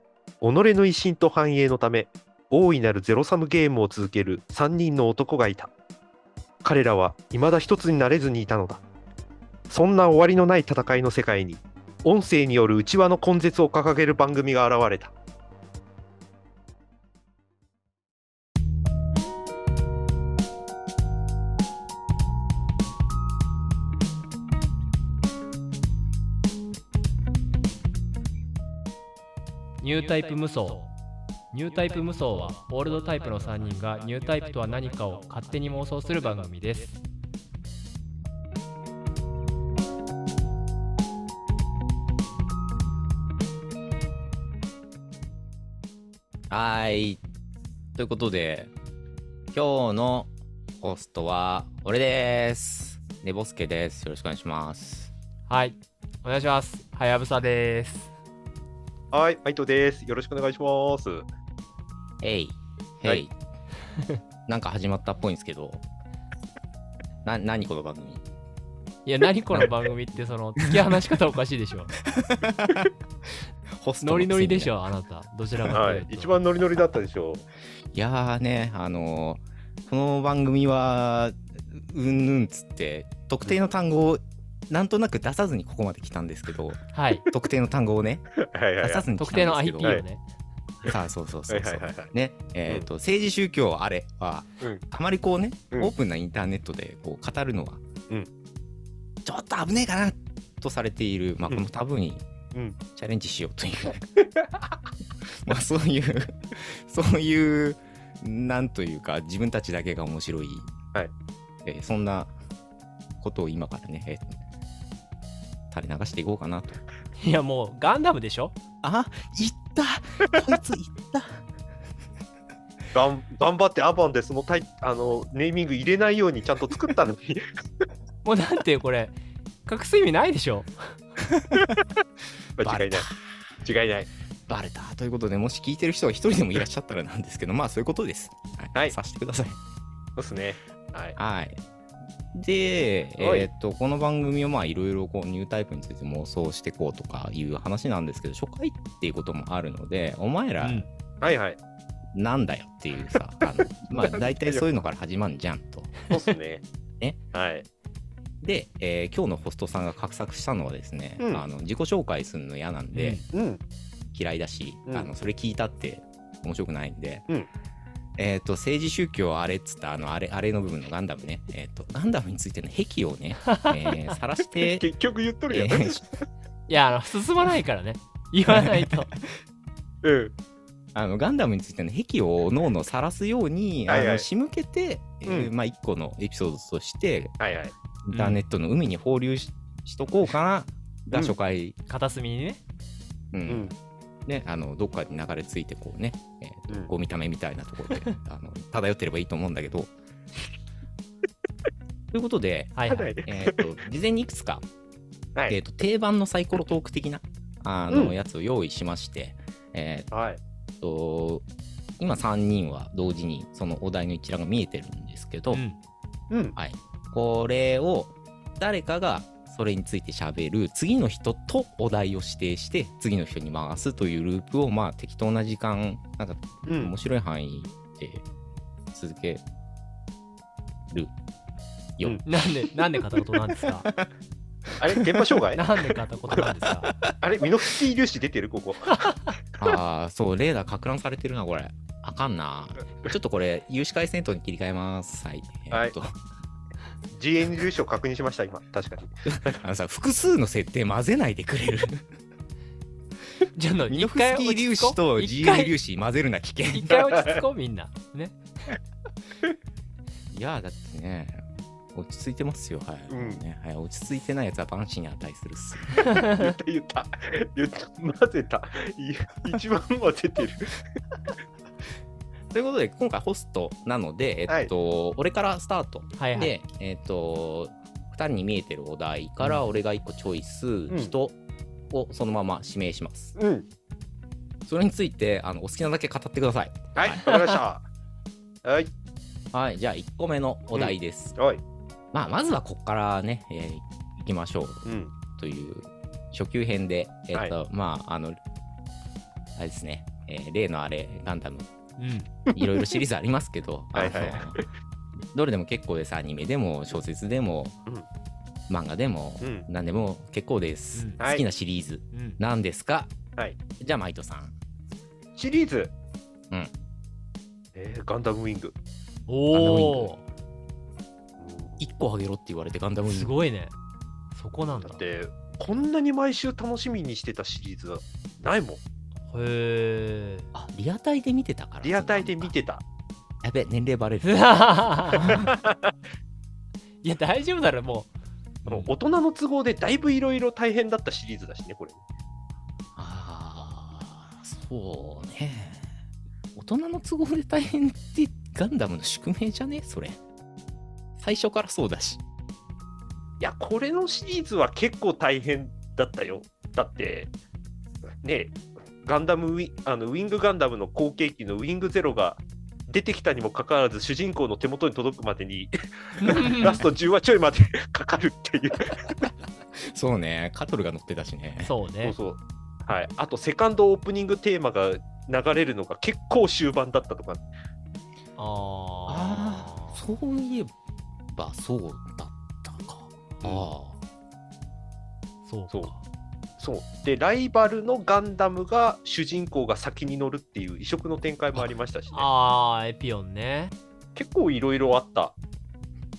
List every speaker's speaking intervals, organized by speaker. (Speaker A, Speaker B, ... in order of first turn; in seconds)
Speaker A: 0.4-5.7, 6.6-8.8, 9.7-15.1, 59.1-61.3, 75.7-77.4, 88.4-89.0, 91.5-92.1, 104.2-104.7, 122.9-127.6, 132.6-133.1, 133.6-134.1, 140.2-141.2, 143.2-143.5, 151.2-151.6, 153.6-154.6, 156.1-156.6, 157.3-157.7, 163.2-163.6, 174.6-176.2, 180.0-180.3, 183.9-184.2, 185.3-185.5, 187.4-187.7, 193.4-193.7, 202.9-203.7, 207.9-208.1, 210.1-210.4, 216.3-216.6, 226.7-226.9, 234.8-235.6, 237.2-239.0, 247.1-249.6, 263.1-263.4, 266.2-270.8, 280.9-281.1, 283.4-283.6, 286.9-287.8, 288.6-288.9, 290.7-291.6, 294.8-295.1, 302.5-302.8, 303.9-304.6, 309.4-309.6, 315.4-315.9, 317.7-318.7, 321.4-321.8, 324.7-328.8, 331.8-332.8, 335.3-335.9, 338.7-342.0, 353.4-357.3, 358.2-369.1, 372.0-377.4, 383.4-383.7, 386.6-392.3, 394.1-395.3
Speaker B: 29.8-30.9, 31.5-37.0, 55.5-58.1, 69.0-71.9, 74.0-76.4, 86.9-87.2, 89.2-90.2, 117.2-118.5, 128.2-130.9, 150.6-150.8, 162.9-163.2, 176.7-179.1, 188.1-188.4, 191.9-192.6, 202.8-203.2, 215.5-215.8, 232.2-233.9, 235.5-236.9, 238.9-239.3, 253.5-255.7, 256.7-258.4, 265.9-266.4, 276.2-276.5, 302.0-302.3, 310.9-311.2, 312.1-312.4, 319.3-320.2, 323.0-323.7, 324.3-325.0, 329.3-330.5, 334.2-335.3, 337.0-338.1, 366.2-366.8, 371.6-372.1, 378.4-380.0, 385.4-386.0, 392.1-393.7
Speaker C: 46.5-47.2, 47.9-48.7, 49.5-55.1, 62.2-63.3, 64.5-65.8, 67.2-68.2, 70.6-71.1, 72.0-72.9, 73.8-74.7, 77.9-90.0, 90.8-97.8, 99.2-102.2, 102.9-104.0, 105.3-110.7, 111.6-112.3, 113.2-114.4, 115.7-116.8, 118.8-121.4, 131.3-131.7, 132.6-133.5, 134.5-139.6, 141.2-141.6, 142.3-150.8, 152.1-156.0, 158.4-163.2, 164.1-167.2, 168.2-174.8, 175.5-176.0, 178.5-178.9, 180.9-187.3, 188.1-191.8, 193.3-193.7, 194.2-199.9, 202.1-204.6, 205.5-210.1, 210.8-211.4, 212.0-215.6, 216.6-228.2, 228.9-229.4, 232.0-232.2, 234.8-235.2, 236.8-237.1, 239.6-246.1, 249.2-252.0, 253.9-257.2, 260.3-266.1, 272.5-281.4, 281.9-283.3, 284.6-287.5, 289.5-291.3, 292.1-298.4, 299.6-301.7, 302.5-304.6, 305.3-307.7, 308.7-313.1, 313.8-314.5, 319.5-320.2, 321.8-323.3, 330.5-332.5, 333.4-335.6, 342.9-345.9, 346.5-350.2, 351.2-352.2, 369.2-371.7, 379.1-380.7, 381.3-384.0